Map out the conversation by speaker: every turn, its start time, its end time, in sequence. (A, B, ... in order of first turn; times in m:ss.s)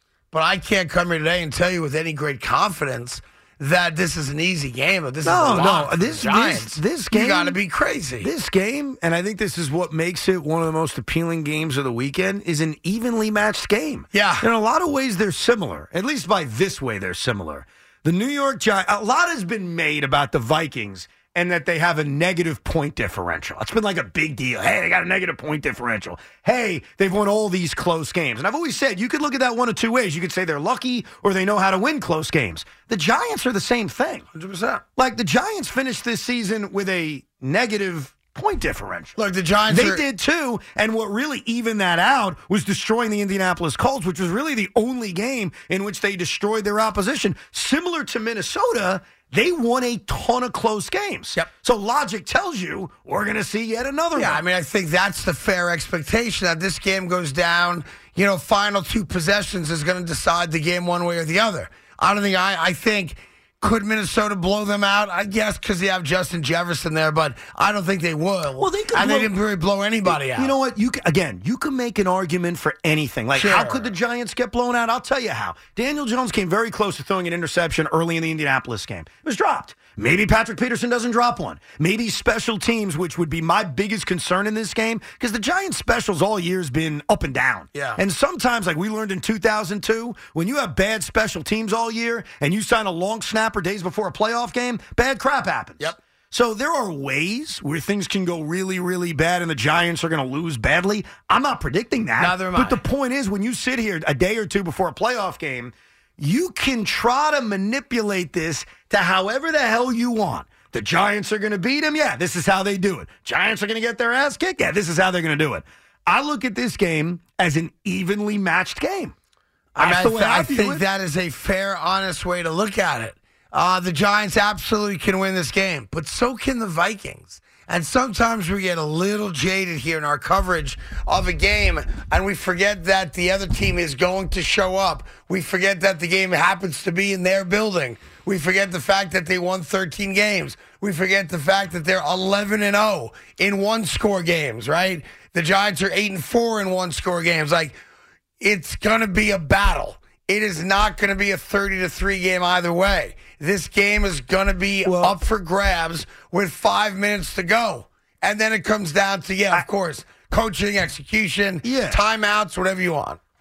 0:00.3-0:08.3 A
0:05.2-0:07.6 B
0:08.2-0:34.2 B
0:14.1-0:14.5 A
0:34.3-0:34.8 A
0:35.0-0:39.2 B
0:39.2-0:40.0 A
0:39.7-0:54.4 B
0:54.2-1:10.5 A
1:08.6-1:09.4 B
1:10.1-1:59.2 B
1:13.4-1:13.9 A
1:27.7-1:28.0 A
1:42.2-1:42.8 A
1:59.8-2:00.8 B
1:59.8-2:27.8 A
2:28.4-2:43.2 A
2:34.8-2:35.2 B
2:41.6-2:42.0 B